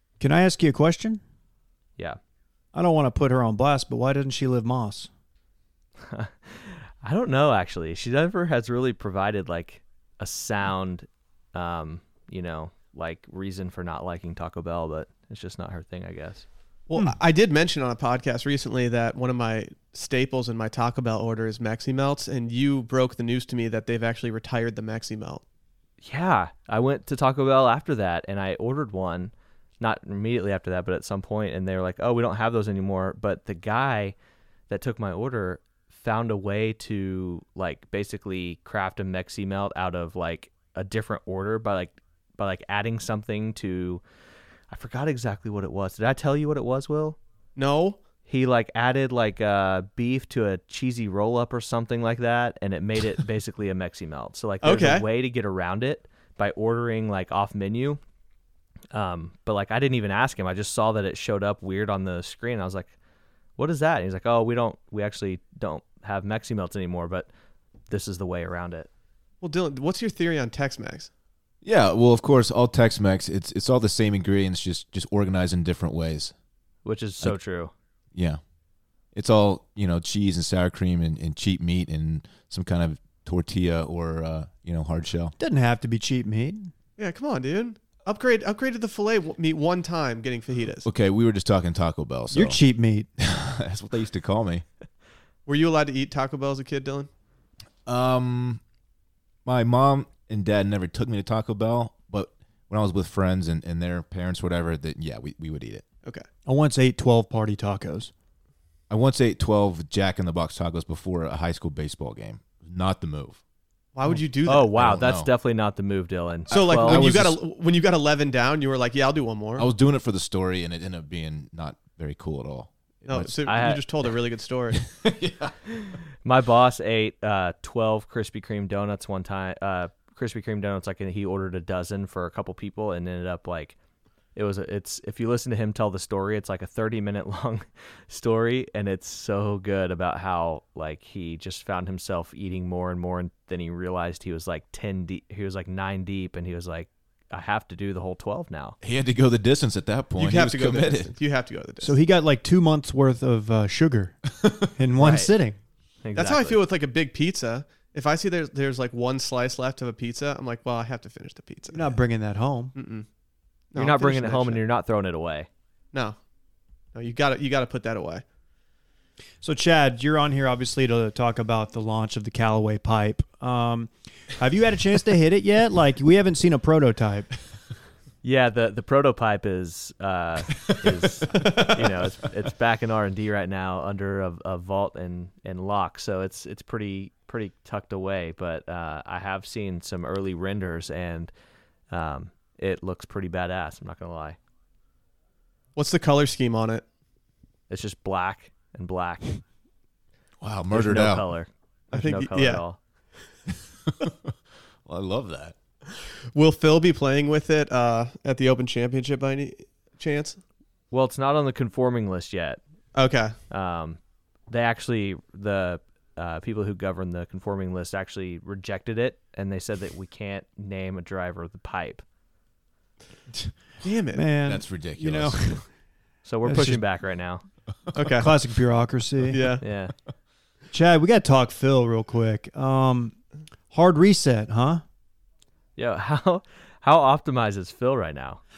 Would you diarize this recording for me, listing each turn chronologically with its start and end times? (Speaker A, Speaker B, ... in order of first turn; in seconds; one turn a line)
Speaker A: 0.2-1.2
Speaker A: 2.7-5.1
Speaker B: 6.0-16.4
Speaker C: 16.9-25.4
Speaker B: 26.0-34.1
Speaker B: 34.7-44.0
Speaker B: 44.7-47.2
Speaker C: 47.5-48.0
Speaker B: 48.3-58.0
Speaker C: 54.6-55.0
Speaker B: 58.9-62.9
Speaker B: 63.6-67.3
Speaker B: 67.9-68.9
Speaker C: 69.4-71.1
Speaker D: 71.6-76.3
Speaker B: 76.8-77.7
Speaker D: 78.1-78.4
Speaker D: 79.1-85.3
Speaker A: 85.4-86.7
Speaker C: 87.0-90.9
Speaker D: 90.8-92.6
Speaker A: 92.3-93.1
Speaker D: 93.2-94.6
Speaker C: 95.5-97.1
Speaker D: 97.8-98.6
Speaker D: 99.4-105.8
Speaker A: 106.5-108.1
Speaker D: 108.9-113.4
Speaker C: 113.9-114.7
Speaker B: 114.5-117.0
Speaker D: 114.7-115.3
Speaker C: 116.5-119.7
Speaker A: 116.9-117.3
Speaker D: 119.6-123.4
Speaker C: 123.1-124.8
Speaker B: 123.5-123.8
Speaker D: 124.8-125.5
Speaker B: 125.8-133.8
Speaker B: 134.3-148.8
Speaker D: 148.8-151.1
Speaker C: 150.2-151.9
Speaker A: 151.8-154.2
Speaker D: 154.4-154.6
Speaker A: 154.7-155.6
Speaker B: 155.0-155.3
Speaker B: 156.0-156.6
Speaker C: 156.1-161.9
Speaker A: 161.7-162.7
Speaker C: 162.7-163.1
Speaker C: 163.7-164.6
Speaker B: 163.7-165.5
Speaker C: 166.9-168.2
Speaker A: 169.4-177.3
Speaker B: 178.2-191.3
Speaker B: 191.9-194.4
Speaker C: 195.8-196.8
Speaker B: 197.7-199.4
Speaker D: 200.4-201.2
Speaker B: 200.7-202.8
Speaker C: 201.9-202.6
Speaker D: 203.8-204.3
Speaker D: 204.8-205.6
Speaker C: 206.3-210.4
Speaker B: 210.9-212.6
Speaker C: 212.9-213.3
Speaker B: 213.5-222.0
Speaker C: 223.8-224.2
Speaker A: 224.1-225.7
Speaker D: 224.4-225.5
Speaker B: 226.2-227.4
Speaker A: 226.4-226.8
Speaker C: 227.9-228.3
Speaker A: 228.2-229.5
Speaker C: 229.2-229.6
Speaker B: 229.6-229.9
Speaker A: 230.7-233.1
Speaker A: 233.7-234.8
Speaker B: 235.8-238.4